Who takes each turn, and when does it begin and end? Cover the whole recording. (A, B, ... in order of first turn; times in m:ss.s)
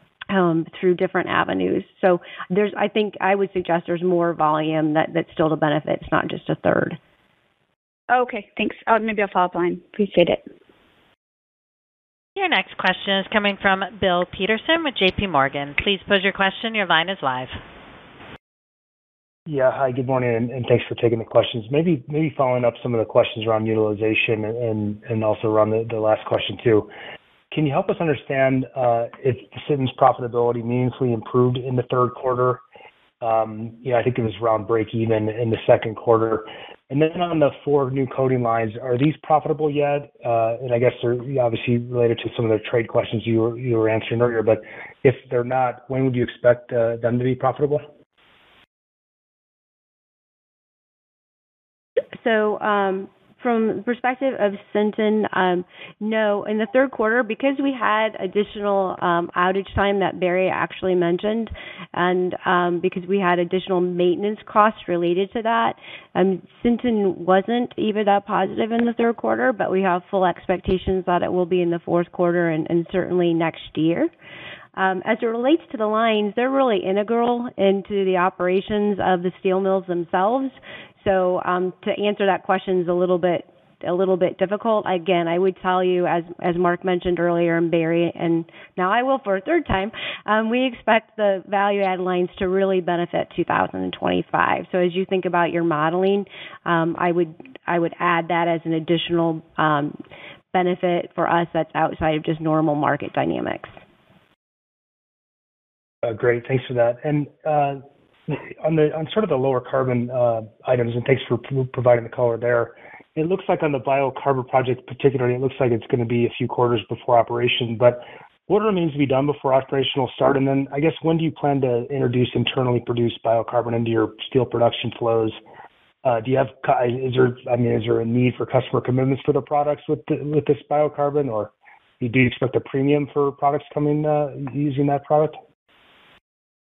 0:00.3-0:07.0 A
0:08.1-0:10.4 B
0:12.4-0:17.6 C
0:19.5-0:26.9 D
0:27.5-0:32.6 D
0:33.2-0:47.8 D
0:52.2-1:14.1 A
1:14.8-1:40.0 A
1:40.5-1:43.7 A
1:46.0-2:05.4 D
2:06.0-2:15.4 D